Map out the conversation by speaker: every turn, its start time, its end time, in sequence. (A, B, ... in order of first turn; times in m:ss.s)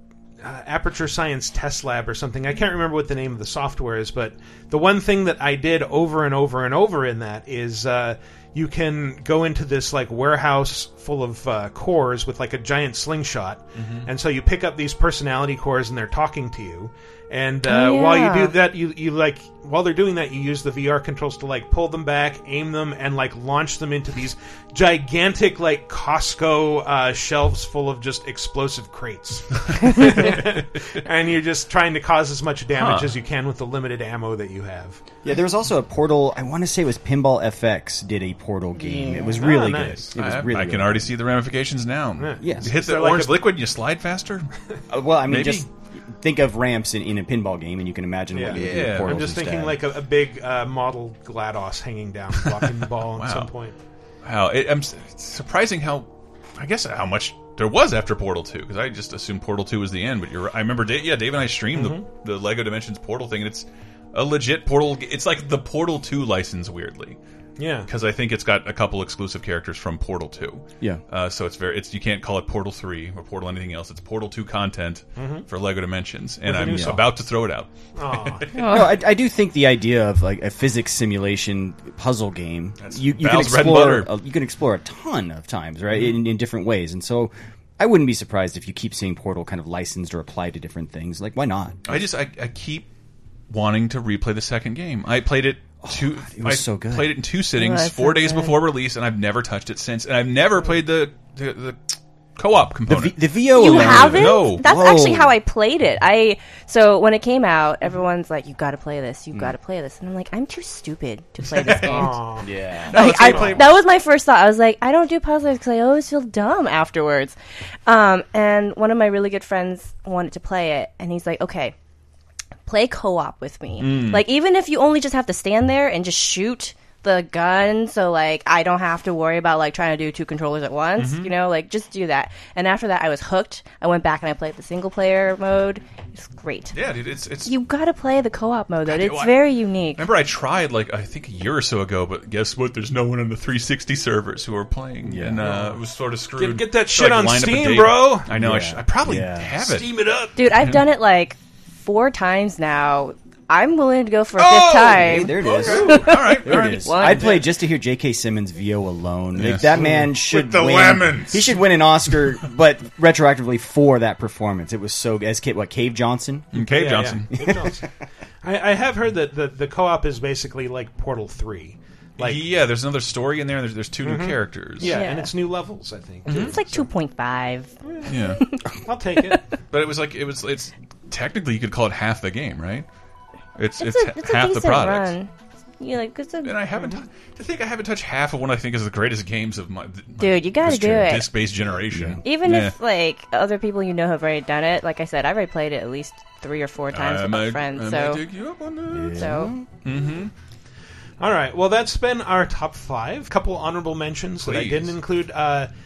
0:00.4-0:35.0 A
0:13.7-0:14.1 B
0:17.7-0:18.6 C
0:32.7-0:33.1 B
0:35.2-0:41.1 D
0:38.8-0:39.4 C
0:39.4-0:40.1 A
0:40.1-0:44.5 B
0:42.2-0:43.4 A
0:42.4-0:42.6 D
0:44.9-0:49.8 D
0:45.3-0:45.6 B
0:48.3-0:53.7 A
0:48.5-0:49.2 B
0:53.1-0:53.5 B
0:54.2-1:07.2 B
1:01.7-1:02.0 A
1:07.6-1:07.9 A
1:07.8-1:18.5 B
1:15.2-1:15.4 A
1:16.4-1:17.1 A
1:16.6-1:17.0 D
1:17.9-1:18.6 A
1:18.5-1:19.0 C
1:18.6-1:31.8 D
1:22.8-1:24.1 B
1:31.8-1:32.9 B
1:33.5-1:44.7 B
1:35.8-1:37.2 D
1:37.5-1:38.7 C
1:42.9-1:45.4 D
1:43.5-2:01.7 C
1:51.6-1:52.5 A
1:52.4-1:53.6 D
1:52.9-1:53.7 B
2:02.7-2:16.8 C
2:03.8-2:04.2 B
2:11.0-2:11.3 B
2:16.7-2:17.5 B
2:17.4-2:20.1 C
2:18.8-2:29.9 B
2:25.0-2:25.5 D
2:25.4-2:25.8 A
2:26.3-2:28.3 A
2:28.3-2:29.5 D
2:29.6-2:30.4 A
2:30.4-2:37.4 C
2:34.4-2:37.4 B
2:34.9-2:47.8 D
2:39.4-2:42.2 B
2:39.7-2:40.0 A
2:46.5-2:47.4 B
2:46.7-2:47.9 A
2:48.4-2:52.4 A
2:52.2-2:55.0 B
2:54.0-2:56.8 A
2:54.8-2:55.4 C
2:56.3-2:56.6 B
2:56.3-2:59.4 C
2:58.1-2:58.4 B
2:58.8-2:59.4 A
2:59.7-3:02.8 B
3:03.6-3:05.1 B
3:03.8-3:06.7 C
3:06.4-3:12.7 B
3:10.2-3:11.4 C
3:11.9-3:12.2 D
3:12.2-3:18.2 C
3:16.9-3:20.3 B
3:18.9-3:19.7 D
3:19.1-3:19.5 C
3:21.2-3:25.7 A
3:24.4-3:25.0 B